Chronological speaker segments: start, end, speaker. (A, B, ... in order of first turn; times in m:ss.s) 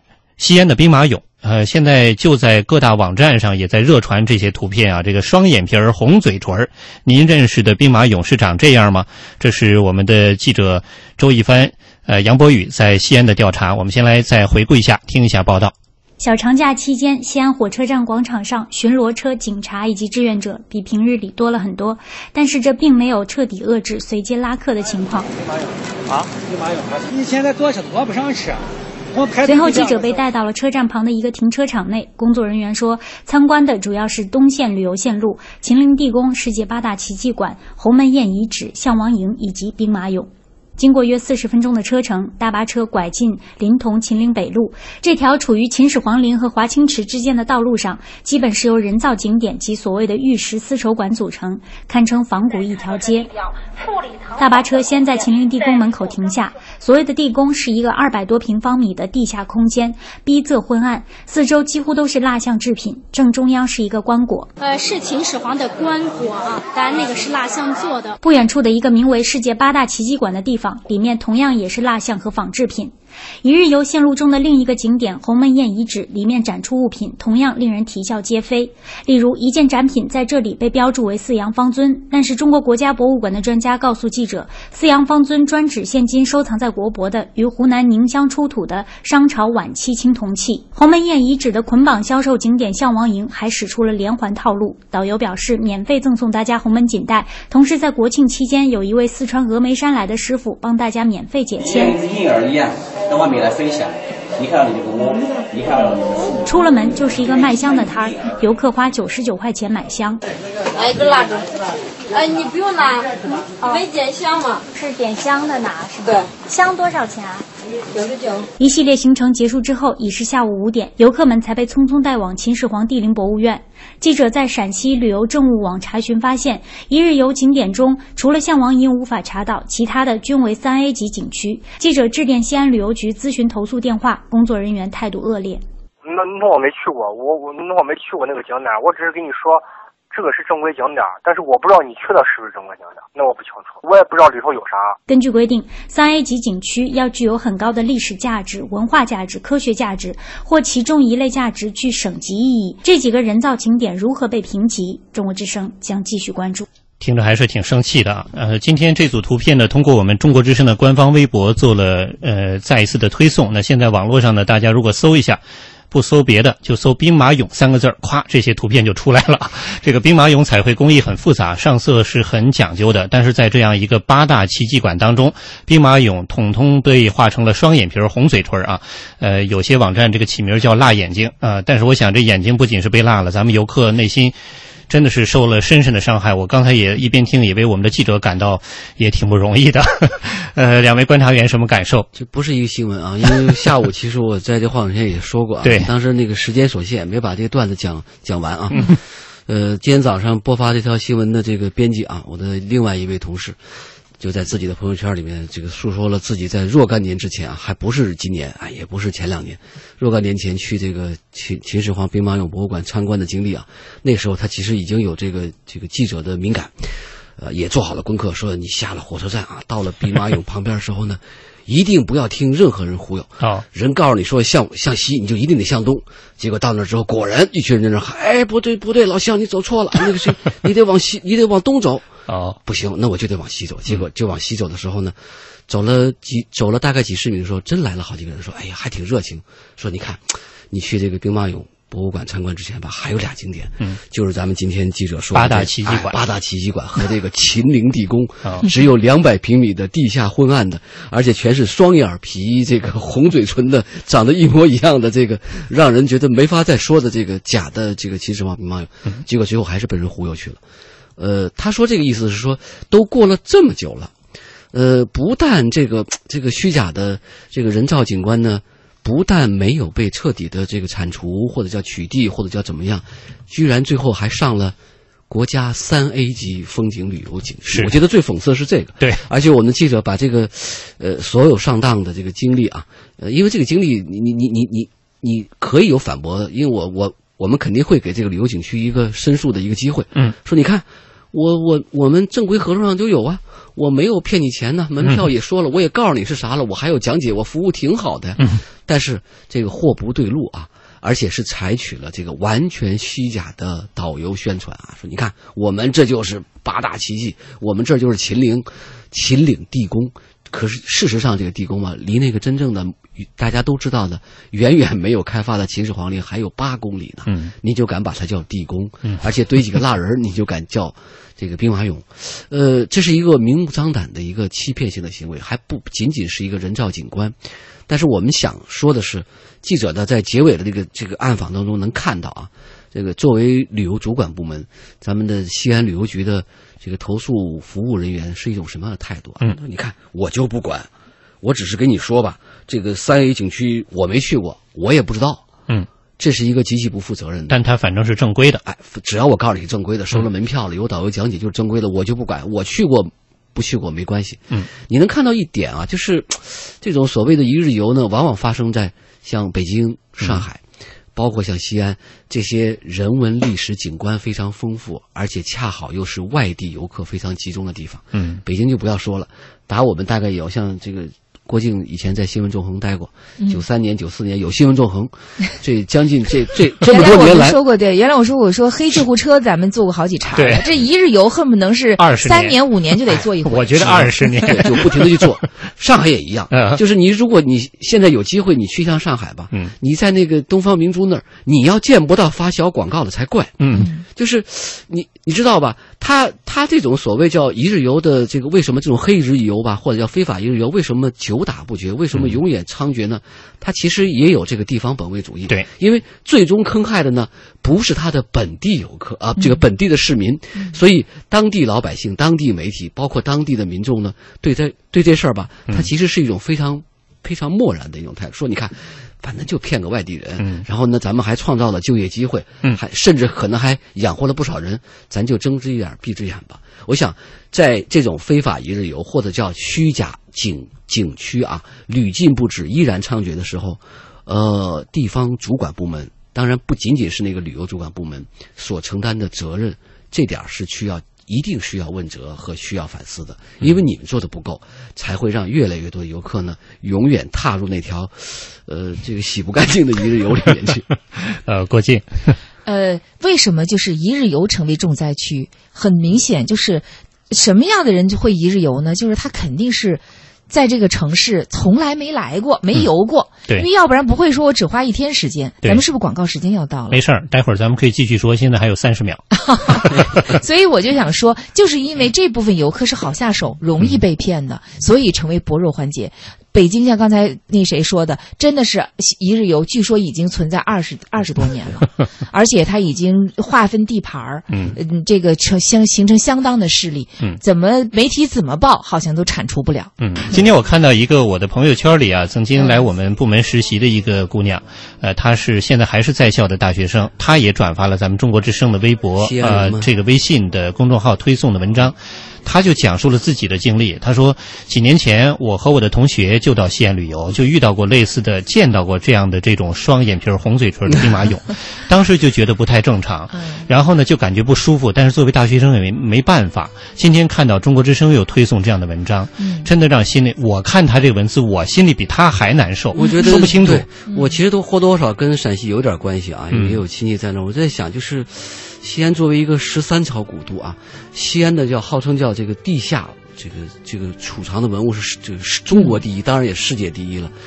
0:00.4-0:15.7 A
0:16.2-0:25.3 B
0:26.1-0:28.6 C
0:29.1-0:30.1 C
0:29.4-0:53.5 B
0:54.3-1:04.5 B
1:04.6-1:08.2 D
1:08.2-1:42.1 B
1:42.2-1:43.9 E
1:44.4-1:45.7 E
1:45.9-1:50.2 B
1:50.8-1:51.5 F
1:52.1-1:53.0 F
1:53.3-1:53.8 B
1:53.7-1:54.6 F
1:54.7-1:57.4 B
1:57.9-1:58.4 F
1:58.6-2:15.6 B
2:16.0-2:25.0 G
2:25.1-2:36.6 B
2:37.0-2:45.4 A
2:45.9-3:04.3 A
3:04.9-3:12.1 A
3:12.1-3:23.6 H
3:15.6-3:15.9 A
3:24.2-3:36.8 H
3:37.4-3:52.1 H
3:52.3-3:52.6 A
3:52.6-3:55.1 H
3:55.7-4:20.6 H
4:05.3-4:06.2 A
4:21.2-4:24.1 H
4:24.7-4:34.7 H
4:35.3-5:27.4 H
5:17.3-5:17.5 A
5:27.9-5:40.9 H
5:41.4-5:45.4 H
5:46.2-5:47.6 H
5:47.5-5:48.6 A
5:48.6-6:00.6 H
6:01.1-6:17.6 H
6:08.1-6:08.4 A
6:16.8-6:24.2 I
6:20.3-6:20.7 A
6:22.0-6:22.6 A
6:23.1-6:25.4 A
6:23.8-6:33.6 H
6:26.5-6:26.8 A
6:33.6-6:33.9 A
6:33.7-6:34.0 I
6:34.1-7:30.8 H
7:00.4-7:00.6 A
7:31.2-7:32.3 A
7:32.6-7:47.0 I
7:46.9-7:49.2 A
7:49.3-8:09.9 I
8:04.5-8:04.8 A
8:10.0-8:43.8 A
8:12.6-8:12.8 I
8:19.2-8:19.9 H
8:33.3-8:33.6 I
8:39.4-8:39.7 I
8:43.0-8:57.3 H
8:43.0-8:43.5 I
8:44.1-8:44.4 I